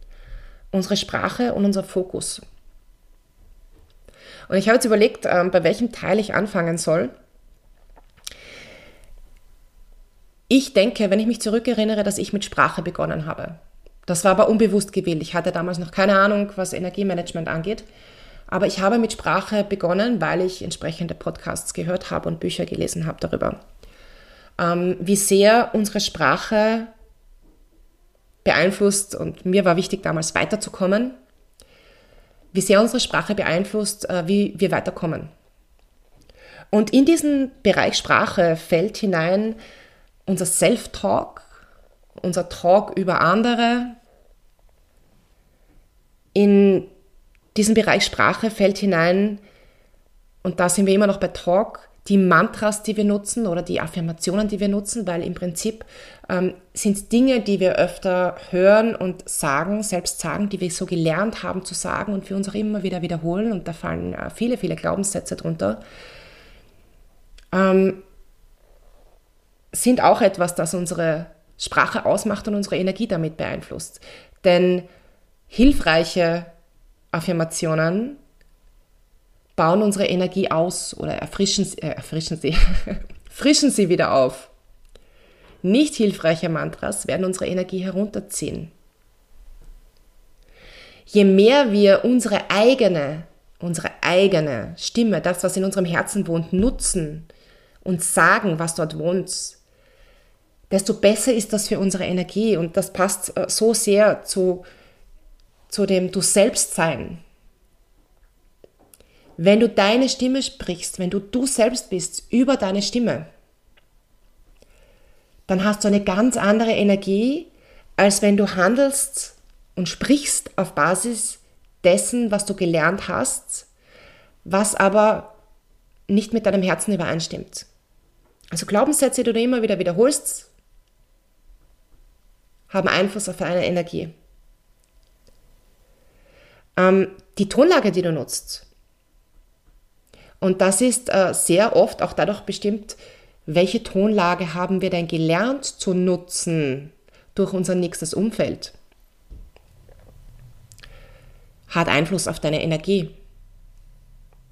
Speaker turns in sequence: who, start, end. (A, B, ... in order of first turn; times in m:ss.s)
0:00.7-0:02.4 A
0:04.5-0:07.1 A
0:10.5-0:17.9 A
0:18.5-0:23.6 A
0:24.6-0:26.9 A
0:28.4-0:31.2 A
0:32.5-0:35.3 A
0:36.7-0:39.6 A
0:40.2-0:41.5 A
0:42.2-0:44.0 A
0:46.3-0:46.9 A
0:47.5-0:49.4 A
0:50.4-1:05.8 A
1:07.5-1:08.0 A
1:09.7-1:14.9 A
1:15.5-1:16.5 A
1:17.1-1:18.2 A
1:19.6-1:24.5 A
1:25.6-1:28.7 A
1:31.1-1:37.3 A
1:37.8-1:39.6 A
1:40.7-1:44.6 A
1:45.7-1:47.2 A
1:49.4-1:53.3 A
1:55.5-2:03.7 A
2:04.4-2:05.3 A
2:06.1-2:07.7 A
2:08.5-2:10.5 A
2:12.7-2:14.1 A
2:16.8-2:18.6 A
2:20.4-2:28.7 A
2:31.7-2:33.1 A